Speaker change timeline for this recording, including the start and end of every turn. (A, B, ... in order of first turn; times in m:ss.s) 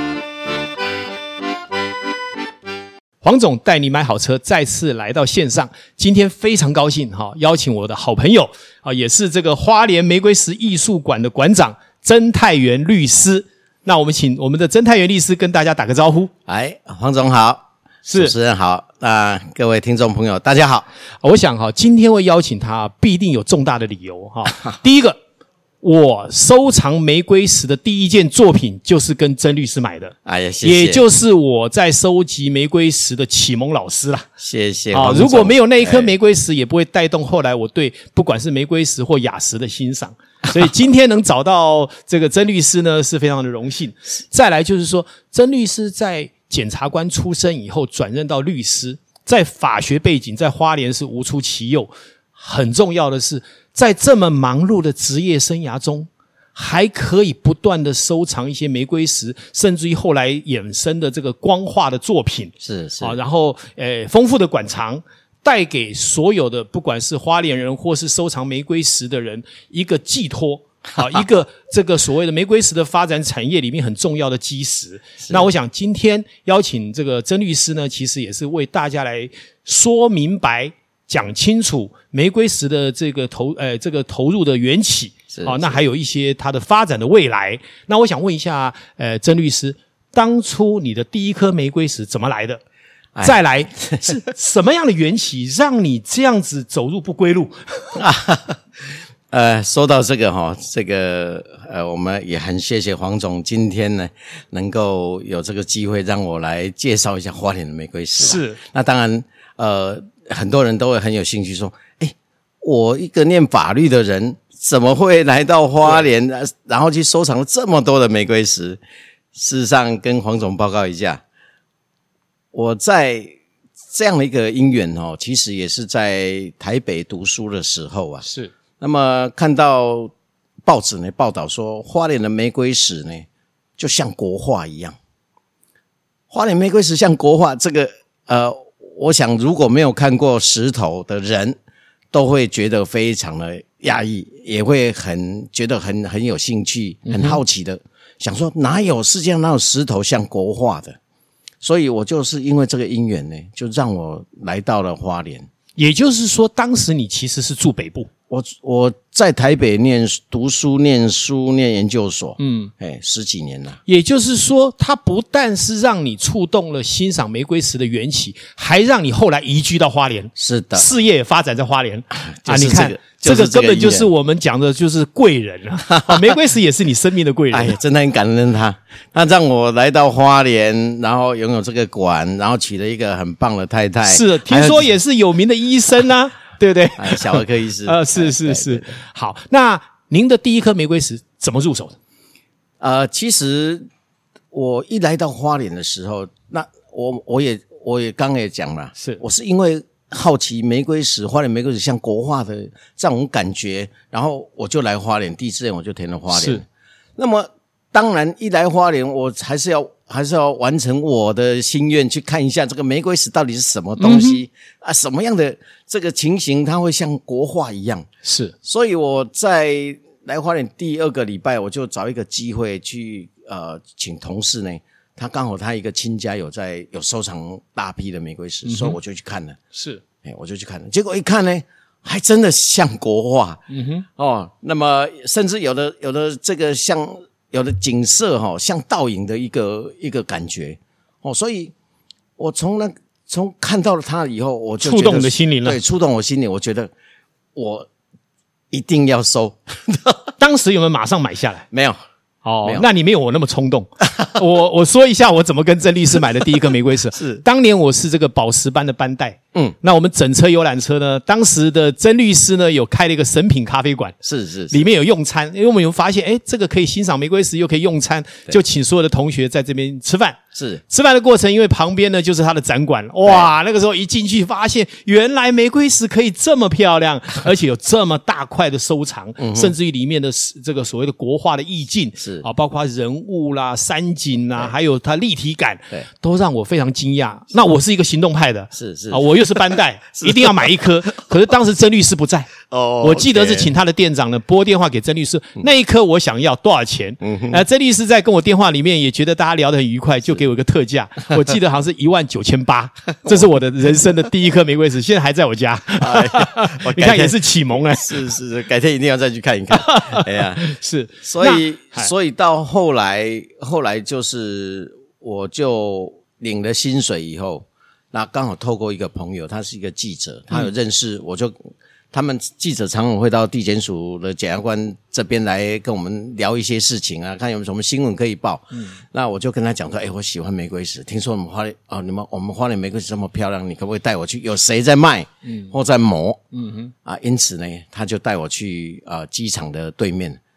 0:03.2-0:16.3 A
0:16.5-0:20.8 B
0:18.0-0:18.3 A
0:21.2-0:25.2 A
0:25.8-0:34.3 A
0:30.2-0:31.0 B
0:34.4-0:36.1 B
0:34.9-1:32.6 A
1:02.6-1:03.2 B
1:25.3-1:25.8 B
1:33.1-1:34.2 B
1:33.2-1:38.0 A
1:37.9-1:38.6 B
1:39.3-1:58.8 B
1:48.2-1:48.6 A
1:59.3-2:01.2 B
2:02.5-2:03.3 B
2:03.9-2:08.2 B
2:08.2-2:08.5 A
2:08.8-2:10.1 B
2:10.6-2:13.2 B
2:13.8-2:15.0 B
2:16.3-2:21.6 B
2:22.1-2:31.0 B
2:27.0-2:27.4 A
2:31.6-2:35.5 B
2:35.8-2:38.1 A
2:38.3-2:43.8 B
2:42.4-2:42.7 A
2:43.8-2:57.7 A
2:50.4-2:50.9 B
2:52.2-2:54.1 B
2:55.9-2:56.4 B
2:57.5-3:04.9 B
3:04.0-3:12.0 A
3:07.0-3:09.0 B
3:12.8-3:13.8 B
3:14.5-3:26.6 B
3:26.3-3:26.6 A
3:27.2-3:38.1 B
3:34.0-3:34.4 A
3:38.2-3:38.5 A
3:38.6-3:49.6 B
3:48.6-3:49.0 A
3:49.7-3:50.0 A
3:50.2-3:53.6 B
3:53.7-3:54.0 A
3:54.2-4:01.7 B
4:02.4-4:06.9 B
4:04.8-4:05.8 A
4:07.5-4:07.9 B
4:08.7-4:10.3 B
4:10.4-4:11.7 A
4:11.7-4:12.0 B
4:12.4-4:24.2 A
4:17.1-4:17.4 B
4:24.2-4:24.8 B
4:24.7-5:08.3 A
4:30.5-4:30.8 B
4:33.2-4:33.5 B
4:39.4-4:39.7 B
4:42.2-4:42.4 B
4:48.7-4:50.8 B
4:52.7-4:53.7 B
4:57.2-4:57.6 B
5:06.0-5:10.7 B
5:09.7-5:12.1 A
5:11.2-5:21.6 B
5:22.1-5:36.4 B
5:28.7-5:29.0 A
5:35.4-5:35.7 A
5:36.5-5:36.9 A
5:37.0-5:40.4 B